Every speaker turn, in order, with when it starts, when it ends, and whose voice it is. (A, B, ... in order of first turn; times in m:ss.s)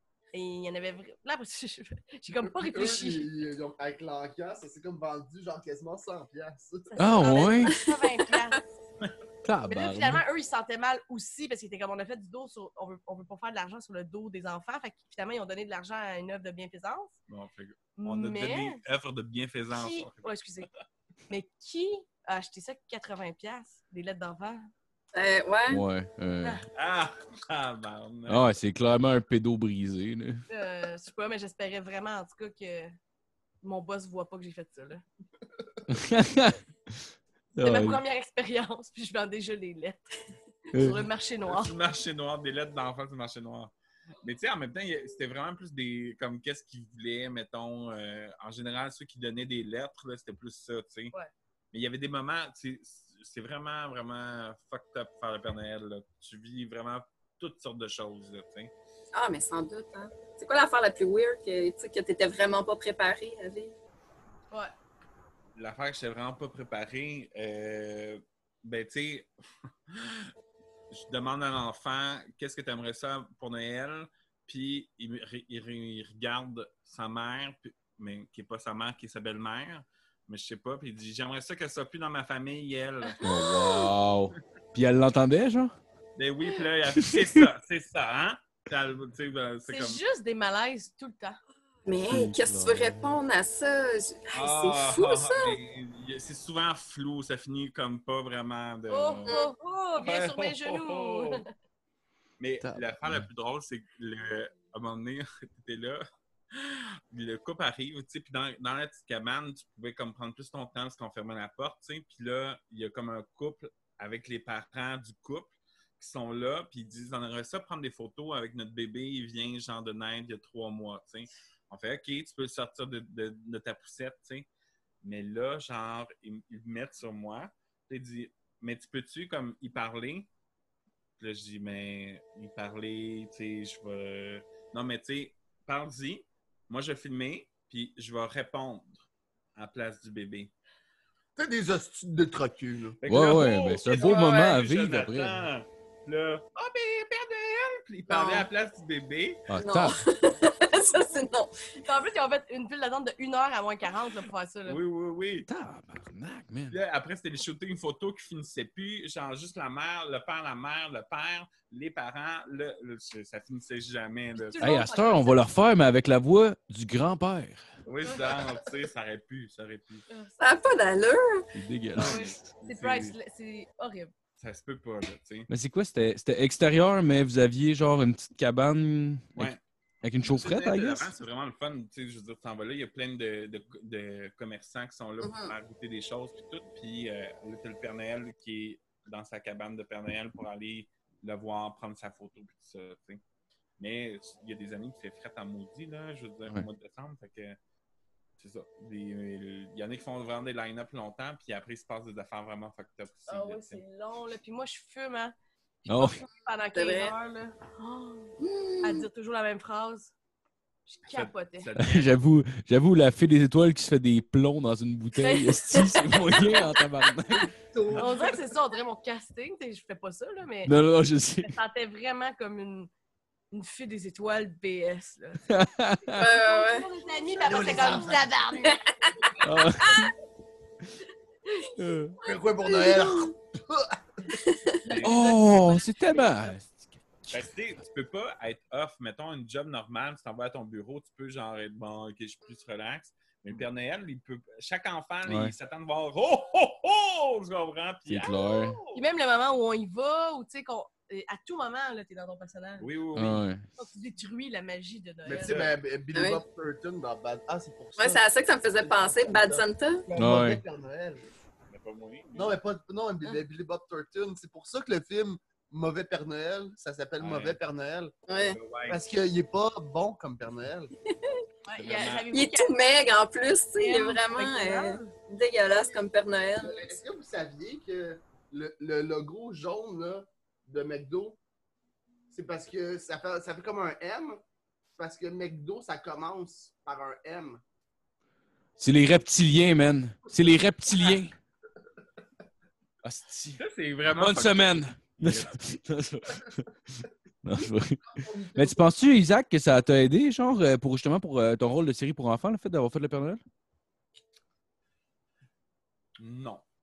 0:00.3-0:03.3 A
0:02.4-0:07.0 B
0:06.9-0:08.6 A
0:07.0-0:07.8 C
0:07.7-0:08.5 D
0:09.4-0:10.2 C
0:09.7-0:17.2 A
0:17.3-0:20.2 E
0:18.0-0:18.8 A
0:19.7-0:20.7 A
0:21.3-0:24.6 A
0:25.1-0:25.8 D
0:25.7-0:26.6 C
0:26.8-0:28.5 E
0:28.3-0:30.4 C
0:30.5-0:32.9 A
0:33.6-0:35.0 A
0:35.9-0:37.0 C
0:37.6-0:38.0 C
0:37.6-0:40.1 A
0:40.7-0:41.7 A
0:40.7-0:41.0 C
0:41.4-0:51.1 E
0:51.7-0:58.7 E
0:59.1-1:03.8 D
1:05.6-1:09.3 E
1:09.9-1:10.3 E
1:10.9-1:23.2 E
1:23.0-1:23.9 A
1:23.2-1:25.8 C
1:26.2-1:30.0 E
1:27.0-1:27.4 C
1:29.7-1:31.4 A
1:31.9-1:35.6 D
1:32.1-1:33.2 C
1:34.3-1:39.4 E
1:38.9-1:41.5 A
1:40.0-1:41.4 E
1:42.4-2:04.5 E
1:42.6-1:43.3 C
2:05.0-2:10.3 E
2:11.2-2:20.5 E
2:21.4-2:23.0 B
2:23.0-2:29.5 E
2:23.1-2:25.4 C
2:28.1-2:28.5 D
2:29.5-2:30.0 C
2:29.6-2:31.8 D
2:31.8-2:34.8 A
2:34.7-2:35.5 E
2:35.5-2:36.8 C
2:36.7-2:44.7 E
2:44.4-2:45.5 A
2:44.6-2:47.7 C
2:47.9-2:50.0 E
2:48.0-2:48.4 A
2:50.1-2:50.4 A
2:50.4-2:51.5 D
2:51.5-2:52.4 C
2:52.0-2:53.2 E
2:52.0-2:54.1 A
2:54.4-2:55.5 E
2:55.5-3:01.2 C
3:00.2-3:13.2 E
3:05.2-3:05.5 D
3:13.8-3:17.6 E
3:18.4-3:23.8 E
3:23.3-3:30.1 A
3:25.9-3:26.2 C
3:26.7-3:27.1 D
3:28.4-3:29.1 D
3:30.9-3:31.7 A
3:31.1-3:32.1 E
3:31.8-3:37.5 C
3:35.2-3:36.7 A
3:37.7-3:38.4 B
3:38.0-3:40.8 A
3:40.6-3:41.5 C
3:41.4-3:42.9 A
3:43.5-3:50.0 A
3:45.5-3:46.2 C
3:46.2-3:46.9 D
3:47.3-3:48.7 B
3:48.7-3:49.2 D
3:49.4-3:50.1 C
3:51.5-3:51.7 A
3:51.8-3:52.2 C
3:52.2-3:54.2 B
3:52.3-3:53.3 D
3:54.4-3:54.8 D
3:54.8-3:55.5 E
3:54.8-3:56.6 A
3:55.0-3:56.9 C
3:57.3-4:09.0 E
4:05.3-4:05.5 C
4:08.1-4:08.8 C
4:08.9-4:12.9 A
4:12.8-4:13.4 E
4:13.2-4:13.7 C
4:13.8-4:15.6 A
4:15.2-4:18.2 B
4:15.4-4:15.7 E
4:16.1-4:16.4 D
4:18.0-4:20.1 D
4:18.8-4:21.2 B
4:20.2-4:20.6 C
4:21.7-4:22.6 E
4:22.4-4:28.1 B
4:27.2-4:27.6 E
4:28.3-4:28.6 D
4:28.4-4:29.0 E
4:28.9-4:30.9 B
4:31.7-4:32.8 A
4:31.8-4:32.3 E
4:32.3-4:37.0 D
4:33.8-4:35.2 A
4:36.6-4:41.4 B
4:42.3-4:44.4 B
4:45.0-4:47.6 B
4:48.8-4:51.4 C
4:53.0-4:53.6 C
4:53.6-4:55.7 E
4:54.2-5:03.4 C
4:58.0-4:58.8 B
5:06.2-5:06.6 E